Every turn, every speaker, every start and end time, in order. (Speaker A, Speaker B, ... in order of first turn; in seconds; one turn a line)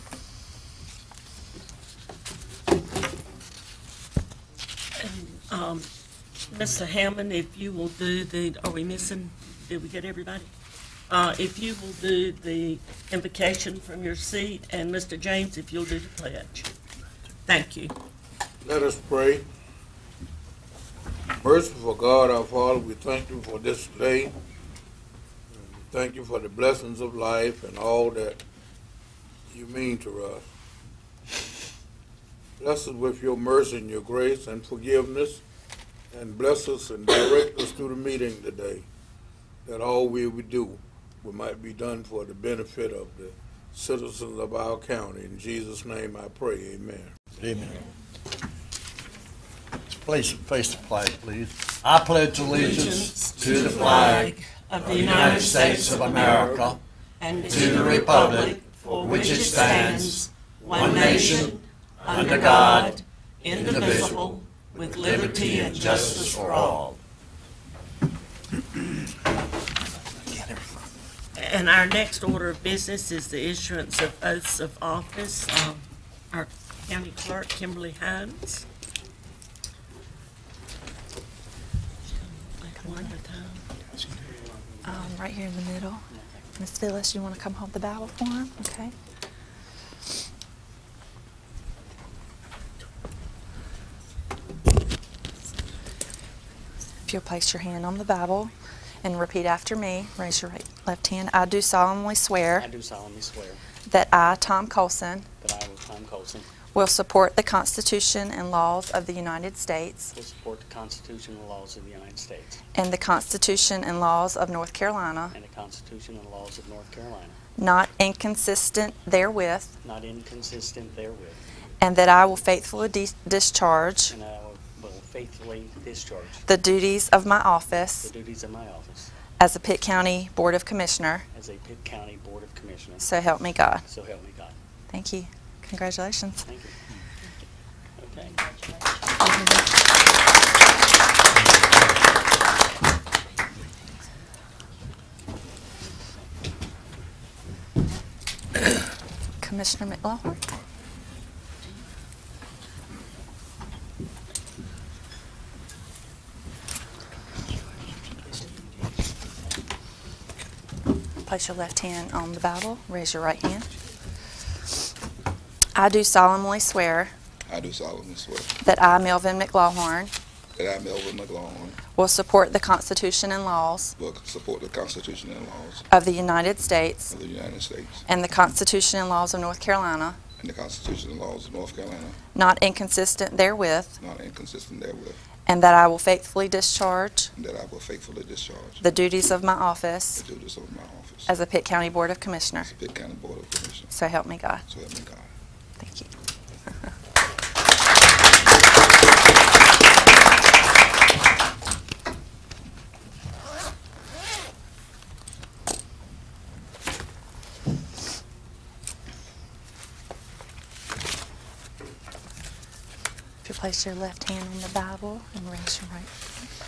Speaker A: 5.0-5.9
Speaker A: 6.5-10.5
Speaker A: 11.1-16.7
Speaker A: 17.5-17.9
Speaker B: 18.6-19.5
Speaker B: 21.4-24.4
Speaker B: 25.5-28.4
Speaker B: 29.5-30.5
Speaker B: 32.6-35.4
Speaker B: 36.1-38.9
Speaker B: 39.6-47.1
Speaker C: 47.4-47.8
Speaker C: 49.9-56.8
Speaker A: 52.4-56.6
Speaker A: 57.2-67.0
Speaker C: 57.5-63.0
Speaker C: 63.5-66.8
Speaker A: 71.4-78.7
Speaker A: 82.1-83.6
Speaker D: 82.8-83.1
Speaker E: 84.0-85.2
Speaker D: 84.8-86.1
Speaker E: 86.1-86.5
Speaker D: 86.6-88.9
Speaker D: 97.0-102.7
Speaker E: 102.6-103.6
Speaker D: 103.9-105.3
Speaker E: 105.4-106.5
Speaker D: 106.7-110.1
Speaker E: 110.1-112.6
Speaker D: 112.8-115.3
Speaker E: 115.3-117.4
Speaker D: 117.6-119.7
Speaker E: 119.8-121.5
Speaker D: 121.8-124.1
Speaker E: 124.1-126.5
Speaker D: 126.5-128.1
Speaker E: 127.9-129.1
Speaker D: 129.4-131.3
Speaker E: 131.3-133.1
Speaker D: 133.0-133.8
Speaker E: 133.9-134.6
Speaker D: 134.9-136.4
Speaker E: 136.4-136.8
Speaker E: 138.0-138.4
Speaker D: 139.2-139.7
Speaker D: 149.4-150.4
Speaker D: 161.3-163.7
Speaker D: 165.8-167.1
Speaker F: 167.5-168.6
Speaker D: 168.6-170.1
Speaker F: 170.6-171.8
Speaker D: 171.9-173.9
Speaker F: 174.0-175.8
Speaker D: 175.9-177.1
Speaker F: 177.1-178.1
Speaker D: 178.1-180.2
Speaker F: 180.4-182.2
Speaker D: 182.3-184.0
Speaker F: 184.0-185.2
Speaker D: 185.5-187.3
Speaker F: 187.4-188.8
Speaker D: 188.8-190.2
Speaker F: 190.2-191.3
Speaker D: 191.3-192.7
Speaker F: 192.6-193.9
Speaker D: 193.9-194.6
Speaker F: 194.7-195.3
Speaker D: 195.8-196.1
Speaker D: 213.4-216.1